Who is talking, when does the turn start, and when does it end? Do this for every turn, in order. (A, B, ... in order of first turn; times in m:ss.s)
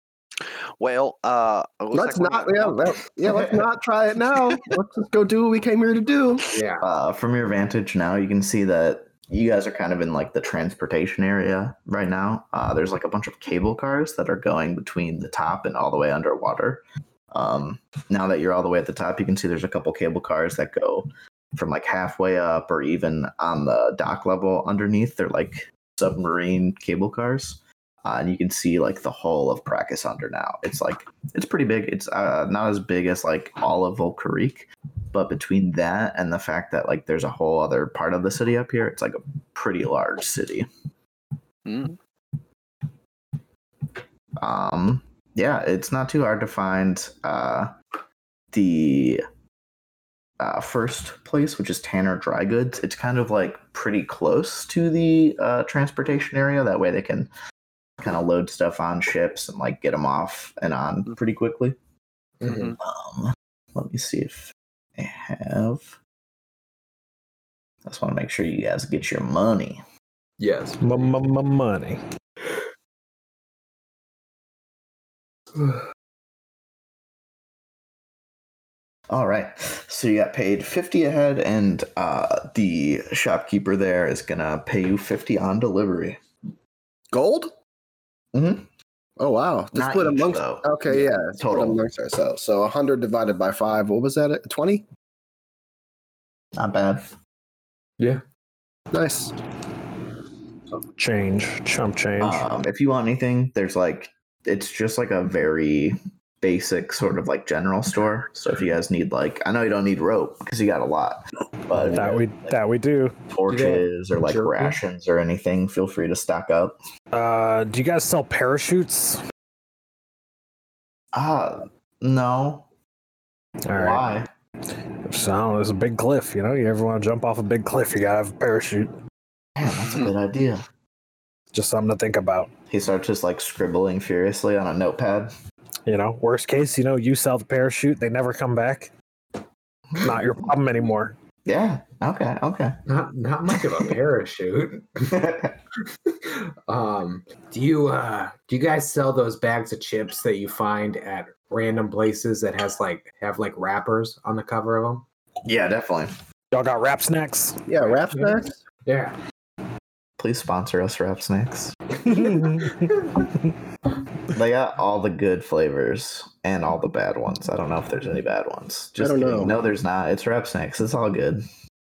0:00.8-0:03.0 A
0:01.9-0:06.5 B
0:06.5-0:06.8 C
0:06.8-0:40.7 D
0:41.6-0:42.0 A
0:44.4-0:47.7 D
0:48.5-0:49.2 D
0:50.4-0:57.3 D
0:58.0-1:01.8 D
1:02.4-1:02.8 C
1:02.5-1:02.8 A
1:02.8-1:06.0 D
1:07.8-1:09.8 D
1:10.4-1:11.2 C
1:10.8-1:12.0 E
1:19.1-1:26.2 D
1:27.1-1:27.5 B
1:28.3-1:28.7 D
1:29.2-1:34.8 B
1:29.7-1:31.8 D
1:36.6-1:37.1 D
1:38.9-1:39.3 B
1:41.0-1:42.4 E
1:42.2-1:52.5 D
1:51.7-1:53.1 E
1:53.3-1:56.8 D
1:53.5-1:54.8 C
1:57.1-1:59.2 E
2:01.1-2:02.7 D
2:03.7-2:04.0 E
2:03.7-2:04.3 D
2:05.0-2:08.9 E
2:09.6-2:10.6 D
2:11.5-2:12.5 E
2:12.7-2:15.3 D
2:15.8-2:18.9 E
2:19.9-2:20.5 D
2:20.0-2:21.2 E
2:21.4-2:22.8 D
2:22.9-2:25.1 C
2:25.1-2:25.6 D
2:26.2-2:35.0 C
2:35.4-2:36.1 D
2:36.5-2:37.6 E
2:37.7-2:38.6 B
2:37.8-2:39.2 C
2:40.2-2:42.1 D
2:42.1-2:42.9 E
2:44.3-2:51.4 D
2:49.0-2:49.5 B